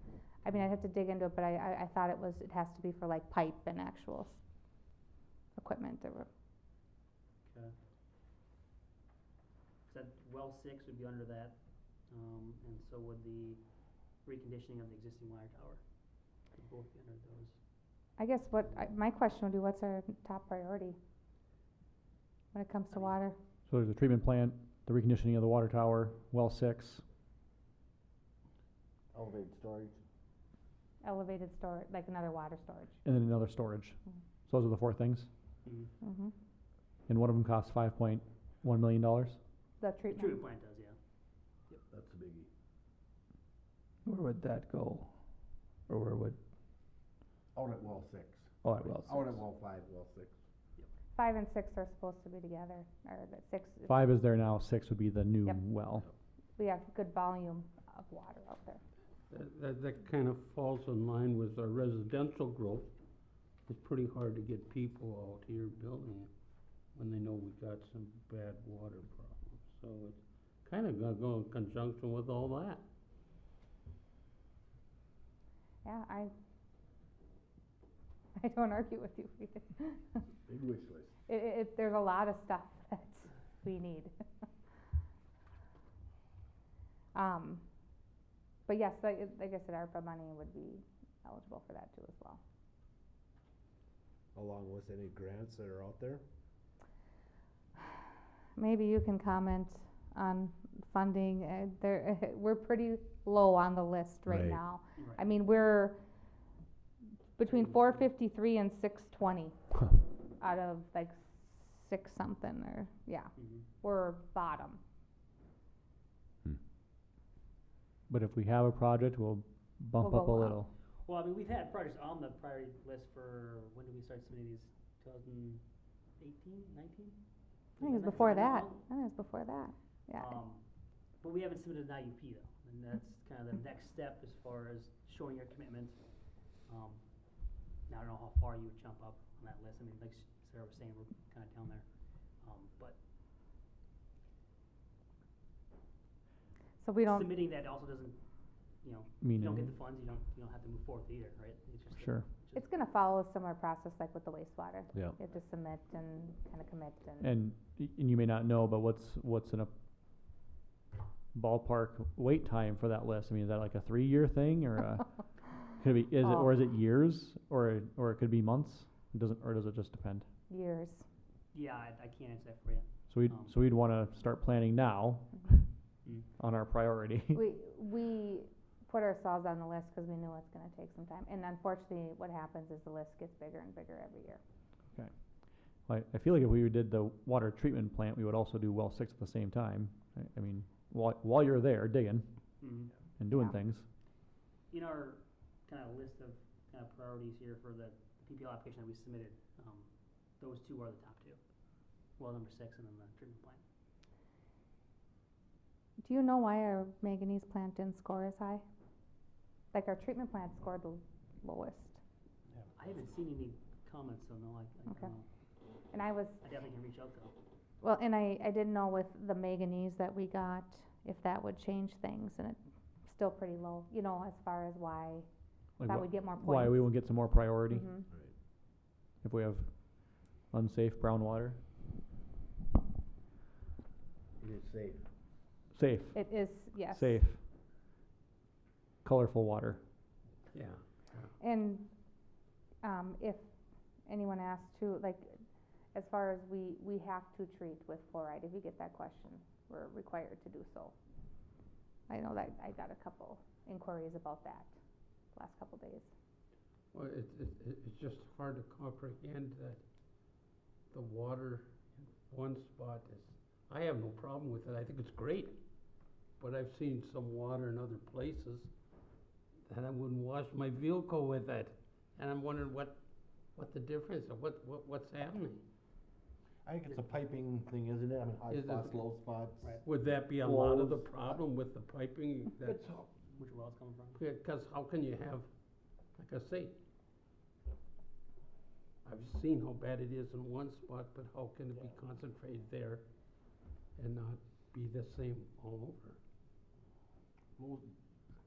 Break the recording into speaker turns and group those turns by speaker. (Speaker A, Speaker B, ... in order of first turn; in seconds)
Speaker A: 0.4-4.4, 5.6-6.3, 18.2-21.0, 22.5-23.4, 31.0-33.0, 36.0-36.3, 39.8-40.4, 51.1-54.1, 56.6-58.8, 75.8-76.3, 78.4-80.2, 81.3-84.1, 87.1-87.6, 88.7-92.4, 98.6-106.0, 107.4-109.6, 110.4-114.8, 120.0-120.6, 127.8-130.4, 146.8-147.3, 152.5-157.3, 166.2-166.5, 170.5-171.1, 177.3-184.4, 193.3-193.6, 206.0-208.7, 209.7-212.0, 215.9-216.4, 217.8-225.3, 225.8-226.9, 227.7-228.1, 236.1-237.2, 241.4-241.9, 242.8-243.4, 244.1-245.4, 245.9-250.9, 252.1-254.7, 255.3-256.1
Speaker B: 7.4-7.8, 9.9-13.6, 14.2-15.8, 16.5-17.6, 18.6-18.9, 35.6-35.9, 40.1-41.0, 105.0-105.2, 107.5-108.1, 113.3-113.7, 121.0-125.6, 126.2-127.2, 127.8-128.8, 130.1-130.6, 131.2-136.0, 136.7-137.0, 137.9-143.0, 147.0-148.2, 148.8-152.7, 171.5-173.5, 192.6-193.0, 194.7-201.4, 202.2-203.6, 212.8-215.3, 216.4-217.3, 279.6-279.9, 283.4-284.2
Speaker C: 23.7-27.0, 33.0-35.3, 37.1-39.4, 53.9-56.1, 118.1-120.7, 149.2-149.8, 151.9-152.2, 157.2-159.7, 161.3-170.3, 173.1-175.7, 176.4-177.4, 184.9-192.6, 193.2-193.9, 225.8-227.9, 229.2-231.6, 235.7-237.4, 239.0-239.8
Speaker D: 29.1-30.0, 41.9-42.5, 47.5-50.4, 80.5-81.1, 94.3-96.2, 234.4-235.0, 276.6-281.4, 282.6-283.1, 297.6-297.9
Speaker E: 44.1-45.1, 45.9-46.4, 48.6-49.2
Speaker F: 59.3-62.9, 63.6-66.3, 66.9-72.8, 240.5-241.3, 256.9-259.8, 260.9-265.6, 266.4-268.7, 269.7-275.6, 278.5-279.0, 279.8-283.0, 284.2-285.5, 286.1-286.8, 289.0-296.2